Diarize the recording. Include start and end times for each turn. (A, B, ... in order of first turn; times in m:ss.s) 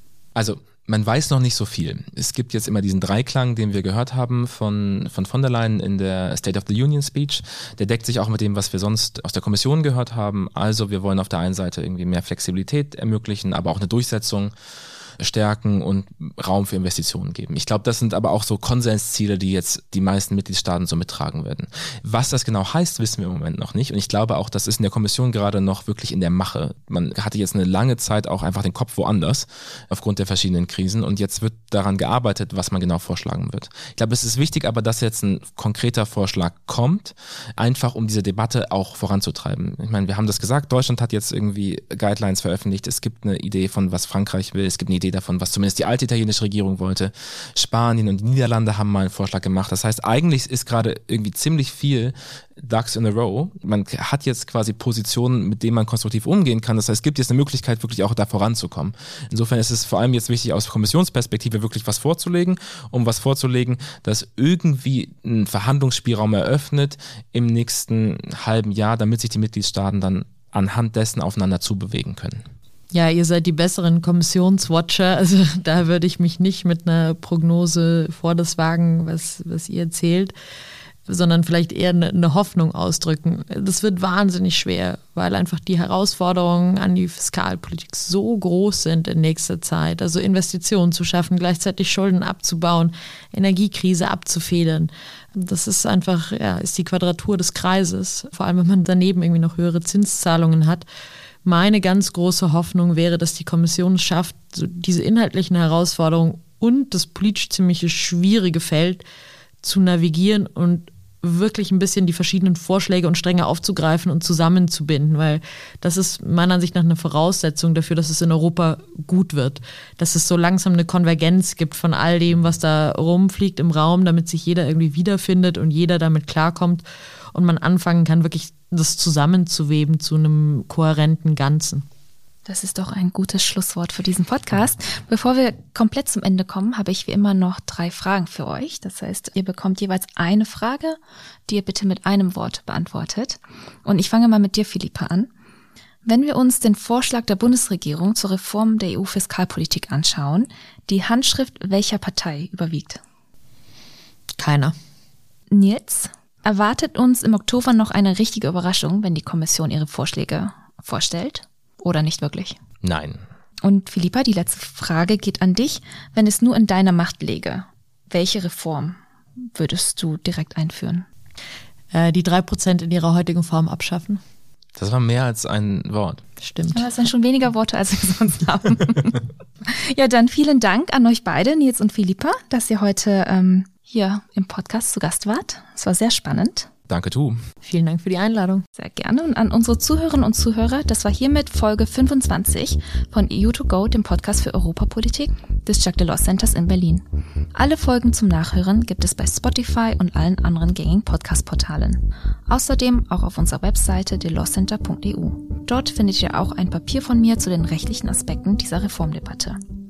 0:00.4-0:14.5 A
0:15.2-1:12.4 A
1:12.9-1:20.3 B
1:21.1-1:40.9 B
1:41.4-1:49.0 B
1:49.6-2:11.8 B
2:12.4-2:25.3 C
2:26.0-2:33.0 C
2:34.4-2:34.7 B
2:35.5-2:42.6 C
2:42.8-2:43.2 A
2:43.6-2:51.1 C
2:51.9-2:54.2 B
2:54.8-2:56.2 A
2:56.4-2:56.8 B
2:56.7-3:06.7 C
3:06.9-3:07.4 A
3:07.6-3:08.6 B
3:08.8-3:29.6 C